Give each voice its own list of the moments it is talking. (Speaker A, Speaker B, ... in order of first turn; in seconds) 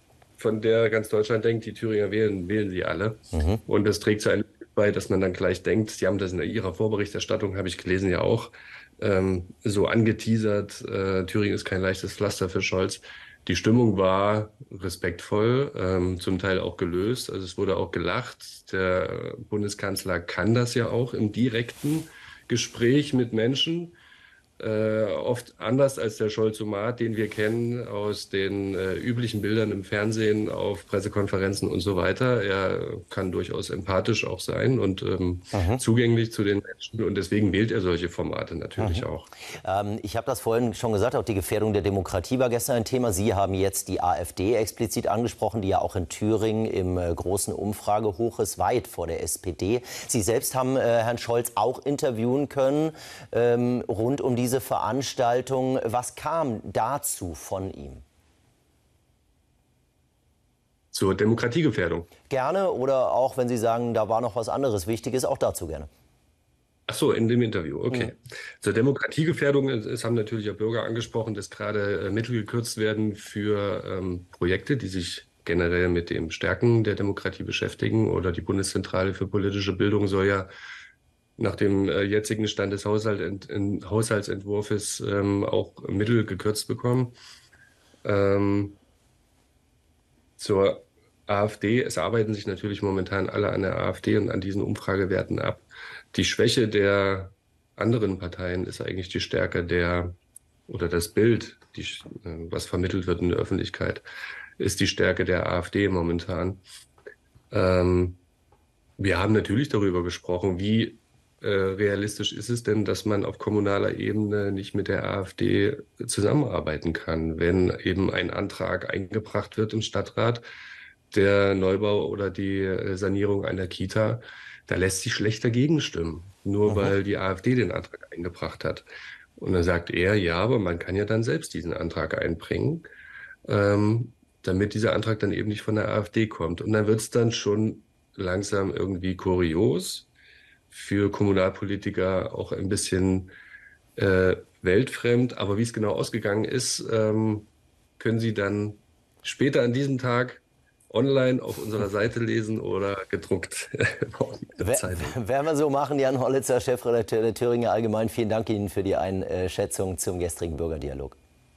Speaker A: 0.4-24.0, 24.6-39.3, 60.9-62.1, 66.9-80.5, 81.4-87.2, 88.0-88.8, 90.4-100.1, 100.7-104.0, 104.6-106.6, 107.5-108.2, 109.0-120.4, 121.1-132.9, 133.4-140.1, 140.7-143.3, 143.9-155.2
Speaker B: 3.3-3.6, 35.5-35.8, 38.8-58.0, 62.3-65.9, 154.6-161.2